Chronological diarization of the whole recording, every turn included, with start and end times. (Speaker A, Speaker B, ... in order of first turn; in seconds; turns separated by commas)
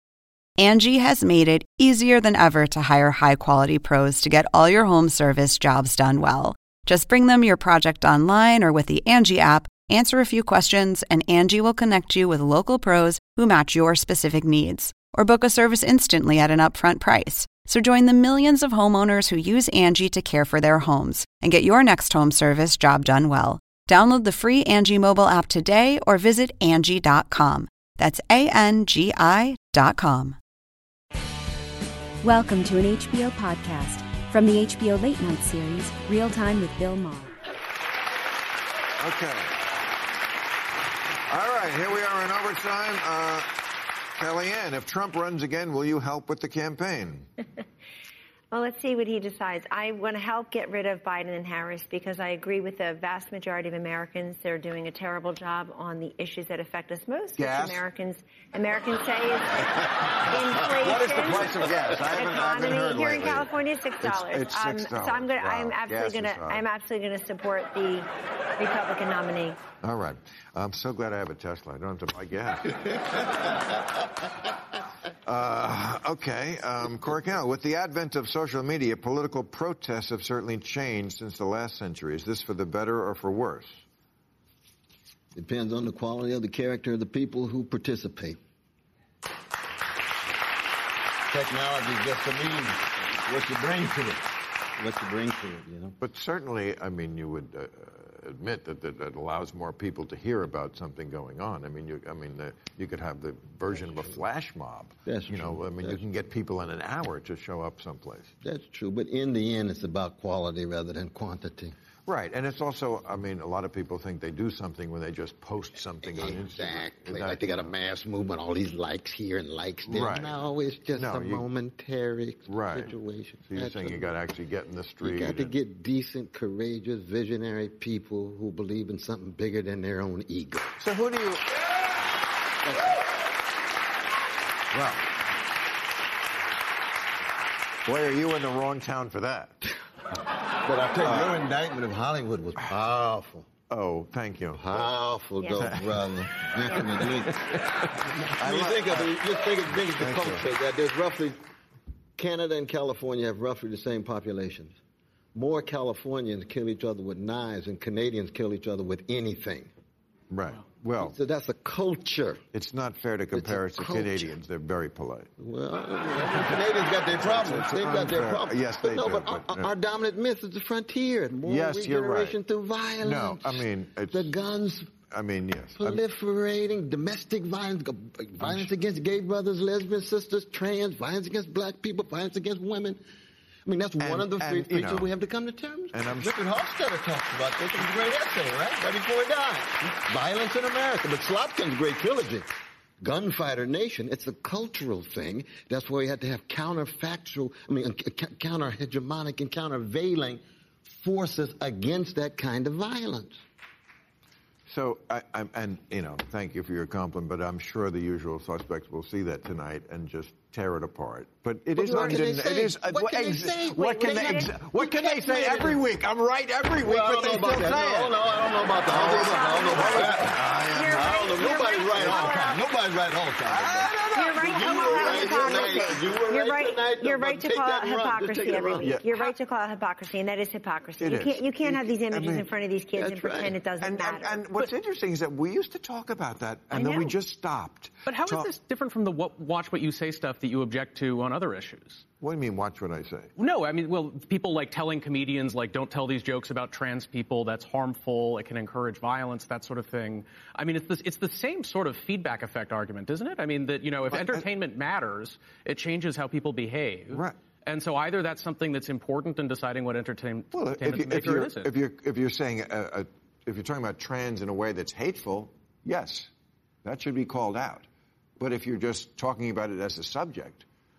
Speaker A: 0.6-30.4, Speaker B: 32.2-37.4, Speaker C: 39.0-39.5, Speaker C: 41.3-43.5, Speaker C: 44.2-47.3, Speaker D: 48.5-69.6, Speaker C: 57.4-57.8, Speaker C: 60.7-66.7, Speaker C: 69.8-73.3, Speaker C: 75.3-83.8, Speaker E: 85.3-88.4, Speaker E: 91.3-96.0, Speaker C: 96.0-108.3, Speaker E: 105.1-106.0, Speaker E: 108.4-111.8, Speaker C: 112.1-117.7, Speaker E: 116.0-124.1, Speaker C: 119.9-120.4, Speaker C: 121.0-121.5, Speaker C: 122.5-122.9, Speaker C: 123.5-125.5, Speaker E: 125.0-130.7, Speaker C: 130.8-131.5, Speaker E: 132.7-133.0, Speaker C: 137.8-139.6, Speaker E: 140.6-143.5, Speaker C: 141.0-141.3, Speaker C: 143.7-144.9, Speaker E: 144.6-147.4, Speaker D: 145.4-145.8, Speaker C: 145.6-146.1, Speaker C: 146.7-147.6, Speaker E: 148.0-151.4, Speaker C: 148.4-150.5, Speaker E: 152.2-154.8, Speaker E: 155.3-159.7, Speaker C: 160.3-161.2, Speaker E: 161.0-162.4, Speaker C: 162.5-165.3, Speaker E: 163.3-164.3, Speaker E: 165.4-174.9, Speaker C: 167.1-169.7, Speaker C: 171.4-172.4, Speaker C: 173.0-174.3, Speaker C: 175.1-176.0, Speaker E: 175.8-183.0, Speaker E: 183.7-192.5, Speaker C: 184.0-185.1, Speaker C: 185.9-186.3, Speaker E: 193.0-203.4, Speaker C: 204.7-218.2, Speaker E: 211.8-214.6, Speaker D: 214.0-215.5, Speaker E: 215.4-215.8, Speaker E: 216.8-220.4, Speaker C: 218.9-222.3, Speaker D: 219.1-222.7, Speaker E: 220.9-228.9, Speaker C: 223.5-226.0, Speaker D: 224.1-234.5, Speaker C: 228.8-229.3, Speaker C: 231.0-232.5, Speaker E: 233.0-233.6, Speaker C: 233.8-238.5, Speaker D: 236.7-237.2, Speaker F: 238.1-242.0, Speaker C: 242.2-243.3, Speaker F: 243.4-261.7, Speaker C: 257.1-257.4, Speaker C: 260.5-266.3, Speaker C: 266.8-267.9, Speaker C: 268.4-270.6